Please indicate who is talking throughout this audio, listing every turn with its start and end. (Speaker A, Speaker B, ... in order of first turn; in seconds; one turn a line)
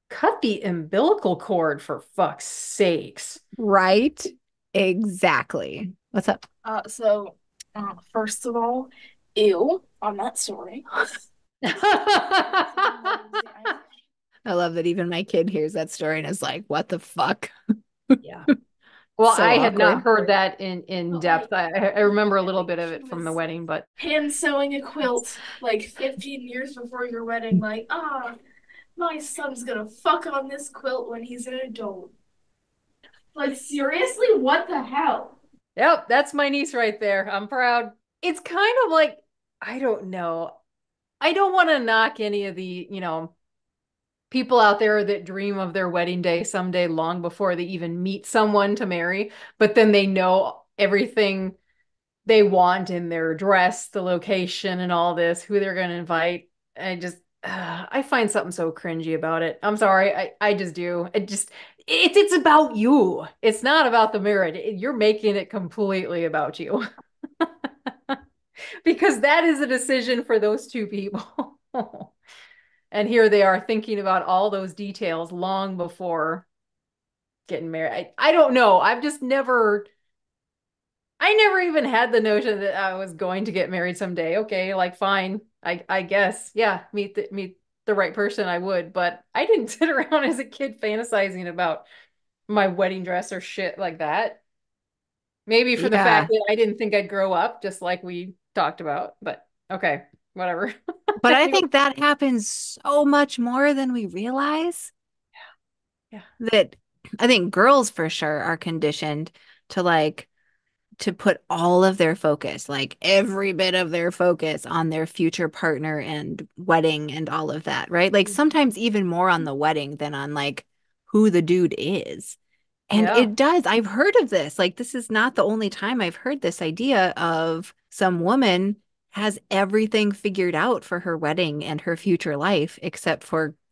Speaker A: 0.1-3.4
Speaker B: 3.6-6.4
Speaker C: 6.6-10.8
Speaker A: 11.6-12.9
Speaker C: 12.7-13.8
Speaker B: 14.5-17.5
Speaker A: 18.2-18.5
Speaker A: 19.2-23.8
Speaker B: 19.3-20.1
Speaker C: 21.1-21.5
Speaker C: 22.0-23.4
Speaker C: 24.0-28.4
Speaker C: 29.0-32.1
Speaker C: 33.4-35.3
Speaker A: 35.8-40.6
Speaker A: 41.2-43.3
Speaker A: 44.3-51.6
Speaker A: 52.3-66.8
Speaker A: 68.8-72.2
Speaker A: 72.9-76.5
Speaker A: 77.5-79.9
Speaker A: 81.2-91.8
Speaker A: 92.5-94.4
Speaker A: 95.5-101.6
Speaker B: 95.8-96.3
Speaker B: 101.2-104.9
Speaker B: 106.4-110.3
Speaker B: 111.0-122.4
Speaker B: 122.9-133.6
Speaker A: 122.9-123.3